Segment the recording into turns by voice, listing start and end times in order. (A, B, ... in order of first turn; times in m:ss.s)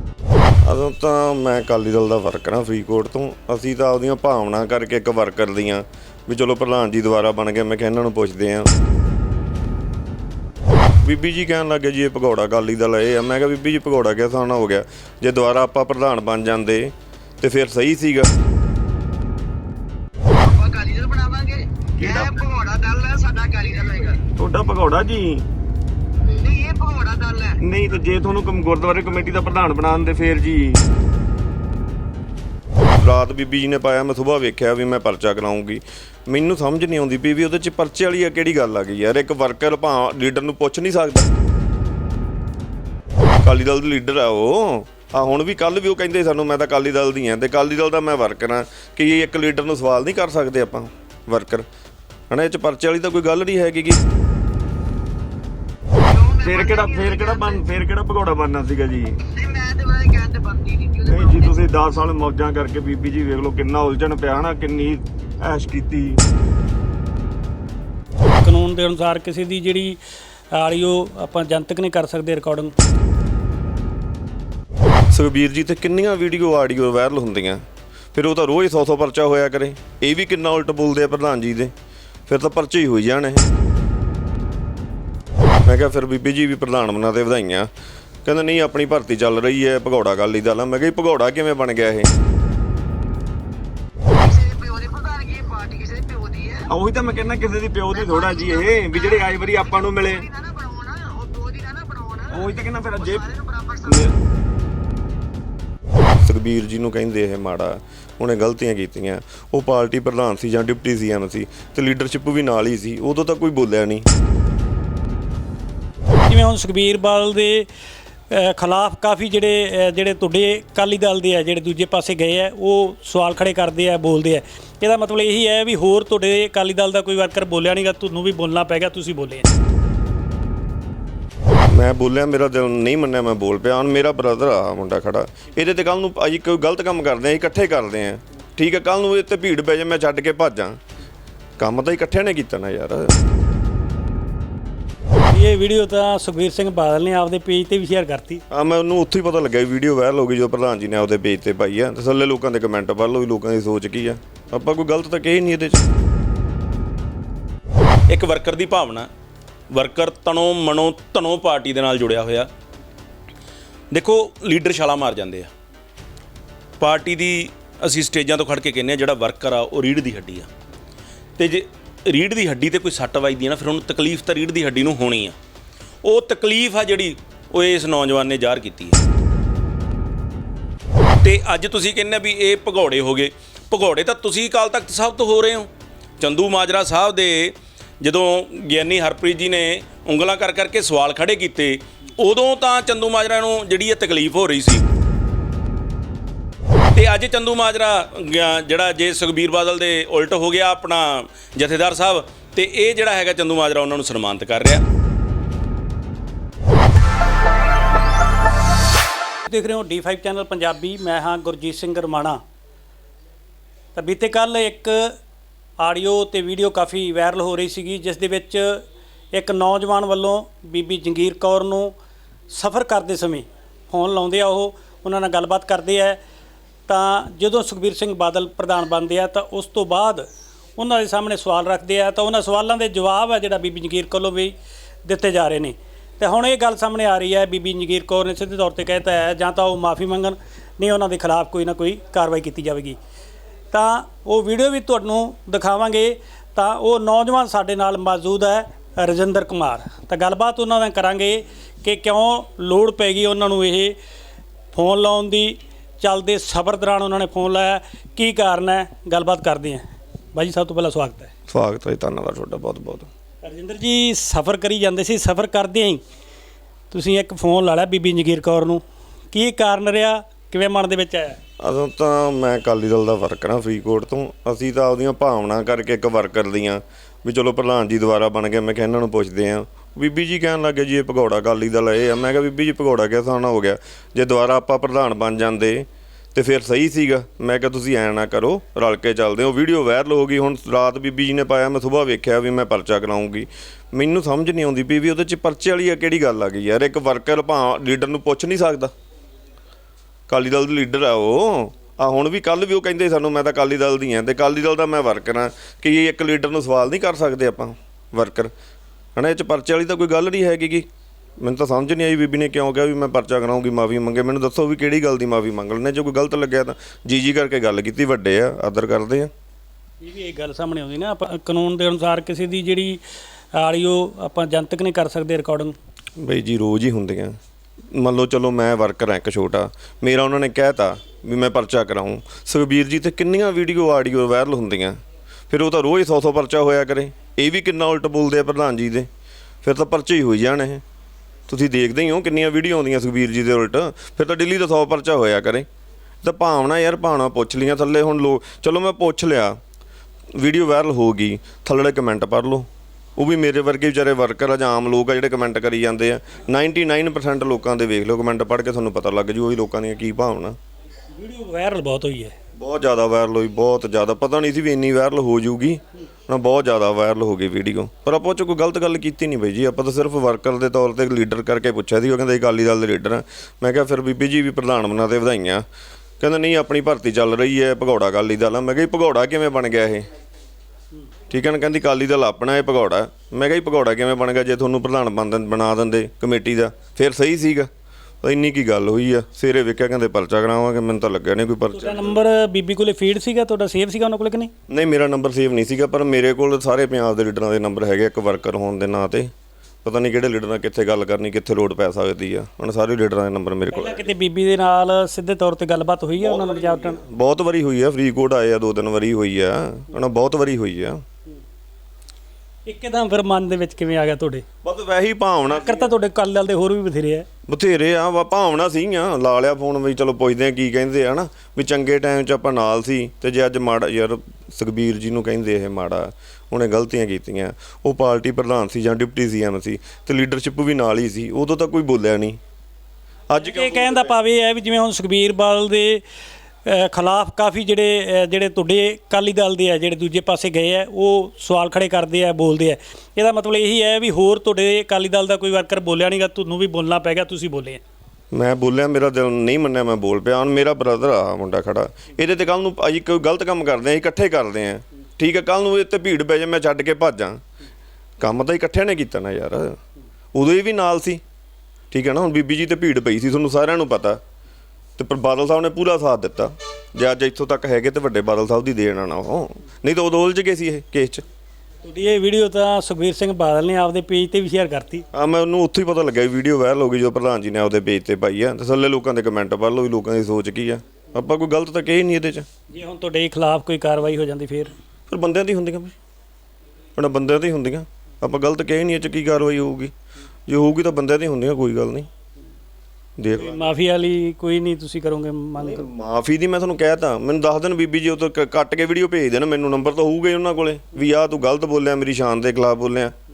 0:00.6-0:08.7 A
0:11.0-0:18.3 A
0:20.4-0:24.2 B
0:22.0-0:22.3 A
0:24.4-0:25.4 A
0:26.3-0:27.6 B
0:27.6-0:30.8 A
0:33.0-0:41.3 A
0:43.4-0:51.6 A
0:52.3-0:54.0 A
0:56.1-0:57.6 B
0:56.4-0:59.2 A
0:59.3-1:01.5 B
1:01.0-1:06.2 A
1:08.4-1:10.0 C
1:10.5-1:12.7 C
1:15.1-1:17.6 A
1:18.1-1:21.7 A
1:22.3-1:23.5 A
1:25.6-1:27.7 A
1:28.2-1:32.1 A
1:34.2-1:36.7 B
1:36.7-1:40.3 A
1:37.9-1:42.4 B
1:42.3-1:43.3 A
1:43.0-1:43.9 B
1:43.8-1:44.1 A
1:46.2-1:54.0 A
1:56.2-1:57.7 C
1:58.3-2:09.5 C
2:11.7-2:20.8 A
2:21.6-2:23.1 A
2:25.3-2:28.4 C
2:28.5-2:35.8 A
2:38.1-2:39.1 D
2:39.7-2:42.5 D
2:43.9-2:45.5 D
2:46.8-2:50.5 D
2:51.4-2:55.4 D
2:56.0-2:59.0 D
3:01.2-3:05.7 D
3:06.2-3:14.8 D
3:16.9-3:24.8 D
3:29.5-3:32.4 C
3:33.9-3:35.1 C
3:35.8-3:38.8 C
3:39.3-3:41.9 C
3:42.5-3:46.2 C
3:46.9-3:54.5 C
3:55.0-4:03.0 C
4:03.7-4:13.9 C
4:14.7-4:21.3 C
4:21.5-4:23.1 A
4:23.4-4:26.0 C
4:26.9-4:31.4 C
4:31.6-4:58.9 A
5:00.3-5:08.5 A
5:09.2-5:10.9 A
5:11.4-5:19.3 A
5:20.0-5:23.0 C
5:23.5-5:25.7 C
5:26.2-5:27.4 A
5:27.9-5:35.0 A
5:35.5-5:39.1 A
5:39.6-5:40.8 A
5:41.5-5:45.7 A
5:46.2-5:49.6 A
5:50.4-6:00.6 A
6:01.1-6:02.3 C
6:02.6-6:15.6 A
6:16.2-6:20.1 A
6:21.3-6:27.7 A
6:28.2-6:32.2 A
6:31.7-6:34.5 C
6:34.7-6:39.3 A
6:39.8-6:44.0 A
6:43.7-6:47.0 C
6:46.2-6:51.0 A
6:52.6-6:54.4 C
6:54.6-6:55.9 A
6:55.5-6:57.2 C
6:57.5-7:12.4 A
7:13.3-7:14.2 A
7:13.4-7:16.0 C
7:16.6-7:27.8 C
7:28.3-7:37.4 A
7:38.2-7:39.8 A
7:40.3-7:41.2 A
7:41.9-7:44.2 A
7:45.0-7:51.2 A
7:51.8-7:55.0 C
7:55.1-8:02.4 A
8:02.7-8:04.7 C
8:05.1-8:05.9 A
8:07.0-8:09.9 A
8:10.5-8:12.1 A
8:13.2-8:13.6 A
8:13.4-8:15.8 C
8:15.6-8:23.1 A